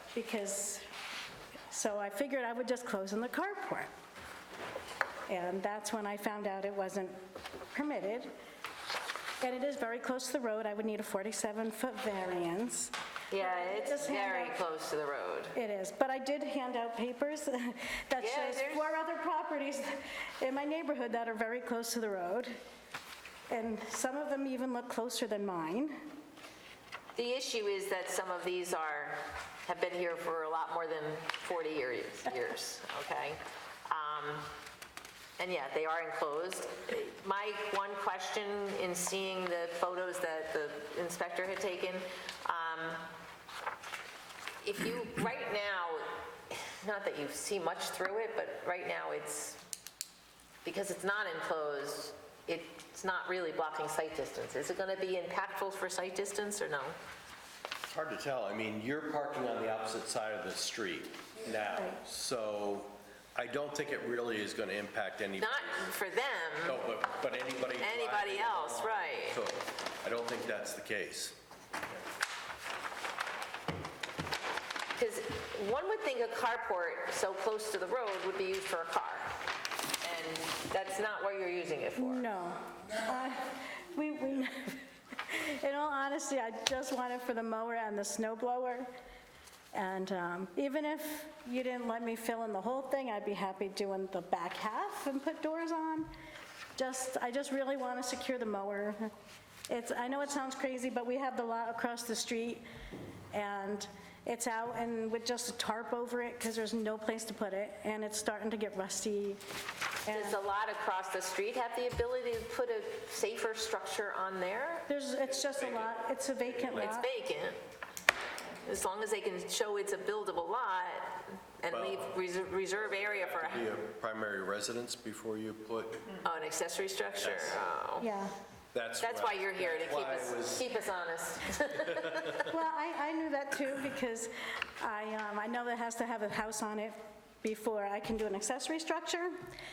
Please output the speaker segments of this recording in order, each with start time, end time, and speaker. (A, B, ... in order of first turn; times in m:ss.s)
0:00.1-0:00.8 A
0:01.7-0:03.9 A
0:05.3-0:07.2 A
0:07.7-0:08.3 A
0:09.4-0:14.6 A
0:13.3-0:15.5 B
0:15.5-0:22.5 A
0:18.2-0:18.9 B
0:23.5-0:26.0 A
0:27.2-0:34.5 B
0:35.4-0:43.1 B
0:44.6-0:49.6 B
0:50.6-0:56.9 B
0:57.9-1:05.9 C
1:05.4-1:06.8 B
1:06.6-1:11.4 C
1:07.8-1:09.4 B
1:15.0-1:19.3 B
1:20.0-1:22.2 B
1:22.0-1:28.9 A
1:29.7-1:36.1 A
1:36.8-1:39.1 A
1:39.7-1:42.6 A
1:43.3-1:49.4 A
1:50.0-1:50.4 A
1:50.1-1:54.8 B
1:54.9-1:57.1 A
1:55.3-1:57.0 C
1:56.8-1:57.6 B
1:58.7-2:03.6 B
2:01.7-2:06.2 C
2:06.3-2:08.0 B
2:07.1-2:07.7 C
2:08.0-2:08.3 A
2:08.7-2:10.8 C
2:09.0-2:12.3 B
2:11.8-2:12.3 C
2:12.3-2:19.4 A